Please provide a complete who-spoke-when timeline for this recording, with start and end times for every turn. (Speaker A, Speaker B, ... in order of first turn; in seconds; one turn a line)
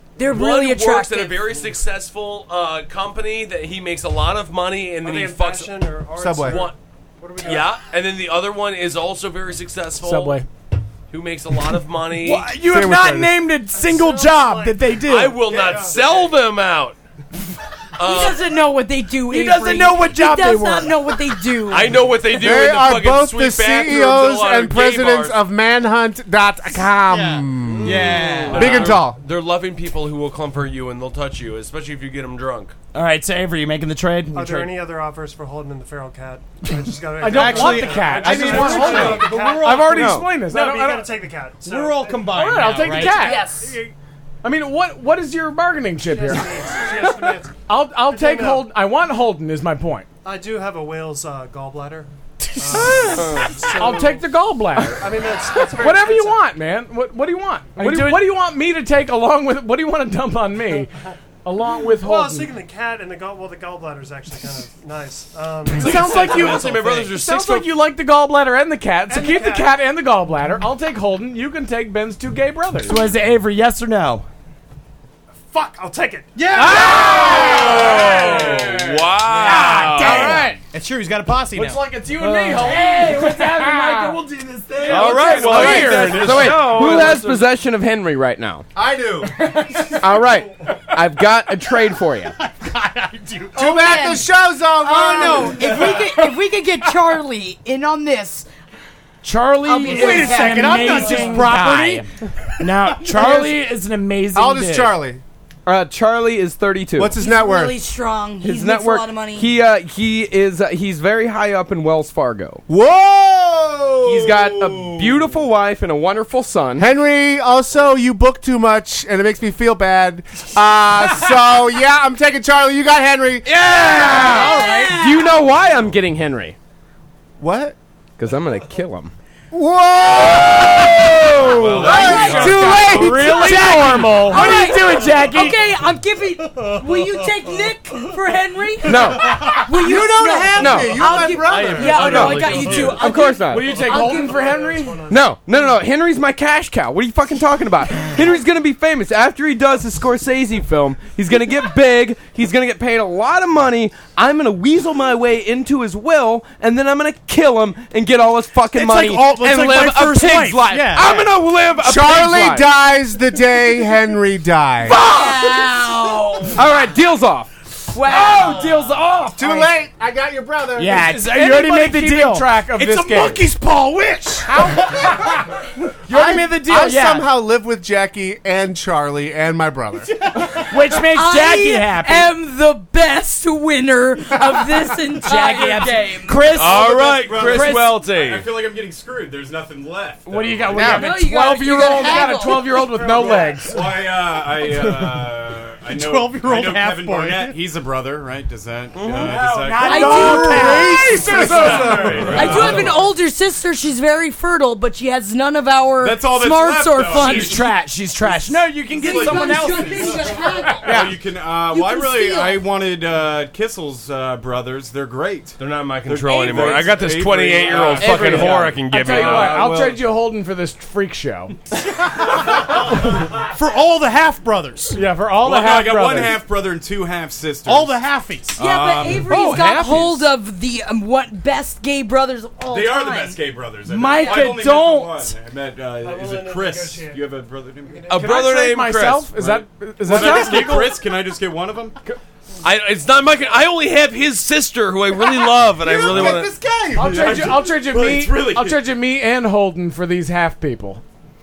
Speaker A: 0.2-1.5
Speaker B: 0.2-6.8
Speaker C: 5.0-7.8
Speaker D: 6.2-6.6
Speaker B: 7.4-10.4
Speaker E: 10.0-10.5
Speaker B: 11.1-12.5
Speaker F: 12.2-15.6
Speaker D: 12.5-13.4
Speaker C: 13.7-16.3
Speaker B: 15.1-17.0
Speaker B: 18.0-18.5
Speaker A: 18.0-21.9
Speaker F: 19.3-21.2
Speaker B: 21.7-25.4
Speaker D: 22.3-29.2
Speaker F: 27.1-28.6
Speaker B: 27.7-32.7
Speaker G: 27.8-29.0
Speaker F: 32.9-34.7
Speaker C: 34.3-43.9
Speaker E: 37.2-41.2
Speaker G: 37.2-40.6
Speaker H: 39.9-40.3
Speaker G: 41.6-43.5
Speaker E: 42.3-43.8
Speaker A: 43.2-43.7
Speaker E: 44.4-50.1
Speaker C: 46.0-48.7
Speaker C: 50.2-56.4
Speaker E: 52.6-60.9
Speaker H: 53.0-53.5
Speaker F: 57.8-58.2
Speaker E: 61.4-62.5
Speaker C: 62.0-66.5
Speaker E: 65.7-73.1
Speaker B: 65.8-67.7
Speaker C: 69.1-69.8
Speaker F: 72.8-74.2
Speaker C: 75.5-76.4
Speaker G: 76.3-78.9
Speaker E: 76.5-79.2
Speaker B: 77.5-80.4
Speaker F: 79.2-80.6
Speaker E: 80.0-80.6
Speaker G: 80.0-81.8
Speaker E: 81.5-84.2
Speaker F: 82.2-85.4
Speaker E: 84.7-87.2
Speaker B: 84.8-87.4
Speaker H: 85.5-88.7
Speaker D: 88.7-89.4
Speaker E: 89.3-90.8
Speaker H: 90.0-92.3
Speaker G: 92.4-93.6
Speaker D: 93.5-96.0
Speaker A: 93.5-98.5
Speaker G: 95.1-96.3
Speaker F: 99.2-105.0
Speaker A: 99.6-101.4
Speaker G: 99.8-102.0
Speaker E: 100.8-101.5
Speaker D: 104.3-105.2
Speaker H: 105.6-107.2
Speaker D: 106.9-107.8
Speaker A: 107.2-109.5
Speaker H: 108.4-112.6
Speaker D: 112.7-115.3
Speaker H: 114.0-116.9
Speaker D: 116.8-124.5
Speaker H: 123.4-126.5
Speaker A: 123.7-125.4
Speaker G: 124.0-124.9
Speaker D: 127.4-127.8
Speaker H: 128.2-129.1
Speaker D: 129.5-132.8
Speaker F: 131.3-135.5
Speaker B: 131.5-132.8
Speaker E: 131.7-135.6
Speaker A: 132.1-144.5
Speaker I: 132.1-132.6
Speaker H: 138.8-139.3
Speaker C: 139.2-140.0
Speaker D: 139.2-142.1
Speaker H: 140.6-141.0
Speaker C: 140.6-140.8
Speaker B: 141.4-143.0
Speaker C: 141.7-142.0
Speaker H: 141.8-143.8
Speaker C: 142.7-143.0
Speaker E: 143.4-145.1
Speaker C: 143.6-145.3
Speaker H: 145.1-162.7
Speaker G: 158.7-161.3
Speaker D: 161.8-165.0
Speaker A: 164.8-166.6
Speaker H: 166.5-167.5
Speaker A: 167.9-168.7
Speaker E: 168.0-169.7
Speaker F: 168.4-168.7
Speaker D: 169.3-171.1
Speaker F: 170.7-172.5
Speaker E: 171.0-173.4
Speaker G: 172.7-174.8
Speaker F: 174.5-175.1
Speaker E: 174.6-175.3
Speaker F: 176.1-177.3
Speaker D: 176.1-180.1
Speaker F: 180.4-182.3
Speaker A: 181.1-186.4
Speaker F: 185.2-187.8
Speaker B: 186.5-188.5
Speaker I: 186.8-191.2
Speaker E: 190.2-195.3
Speaker G: 190.8-191.1
Speaker A: 190.8-193.4
Speaker C: 193.0-193.7
Speaker I: 193.2-203.0
Speaker G: 195.9-197.6
Speaker B: 198.9-199.3
Speaker E: 199.1-199.8
Speaker F: 199.3-201.6
Speaker A: 199.8-201.6
Speaker G: 200.0-201.7
Speaker E: 200.5-202.7
Speaker D: 200.6-202.3
Speaker B: 202.1-202.8
Speaker A: 202.3-210.9
Speaker I: 206.0-207.7
Speaker F: 207.1-210.2
Speaker I: 208.9-220.0
Speaker E: 210.4-211.1
Speaker F: 210.9-211.1
Speaker A: 211.5-212.7
Speaker B: 215.6-219.7
Speaker E: 217.7-221.6
Speaker G: 223.4-225.0
Speaker E: 224.9-226.5
Speaker I: 225.4-228.0
Speaker G: 227.6-228.6
Speaker I: 228.5-229.4
Speaker A: 228.6-233.4
Speaker E: 229.2-230.3
Speaker I: 232.7-238.4
Speaker F: 233.8-235.3
Speaker A: 234.0-234.6
Speaker C: 235.9-237.3
Speaker C: 237.9-238.3
Speaker B: 238.1-239.3
Speaker E: 238.1-241.1
Speaker I: 239.3-241.9
Speaker B: 240.1-240.4
Speaker B: 242.6-246.5
Speaker D: 245.5-247.6
Speaker I: 246.1-246.3
Speaker E: 246.9-251.0
Speaker I: 247.0-248.8